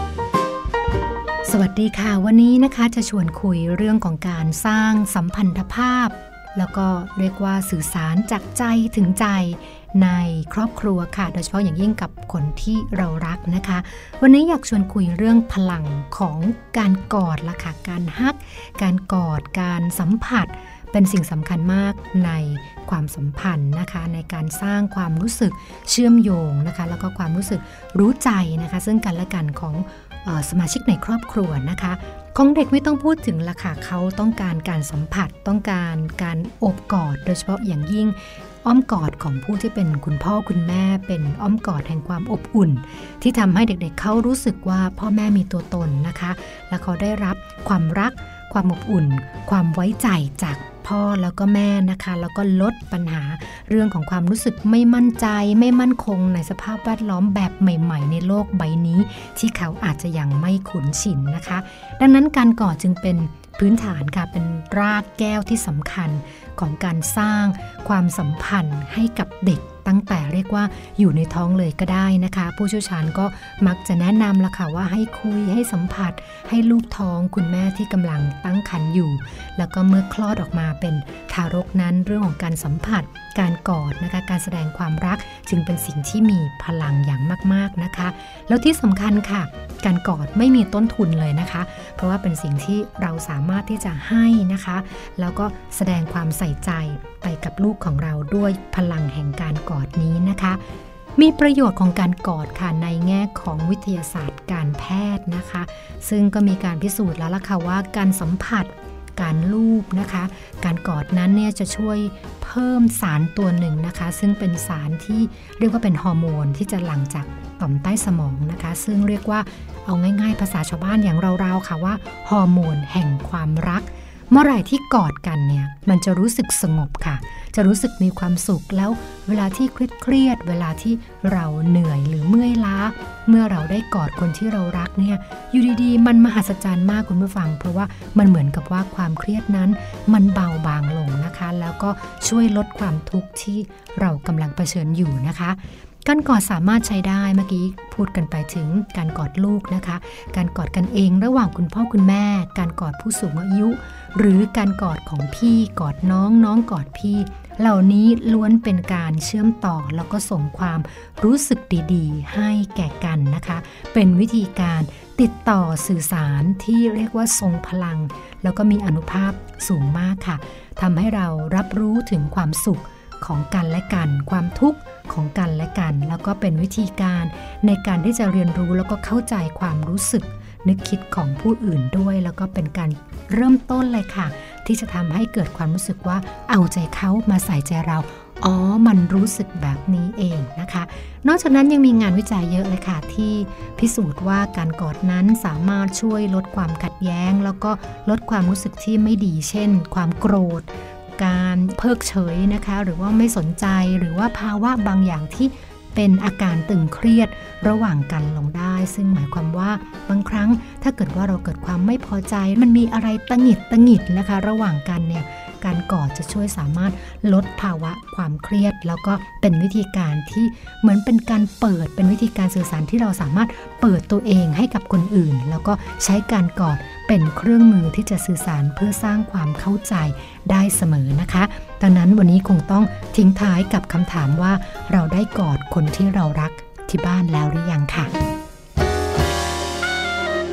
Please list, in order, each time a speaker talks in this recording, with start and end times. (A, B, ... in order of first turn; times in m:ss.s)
0:01.4-1:40.6 A
1:41.2-3:58.1 A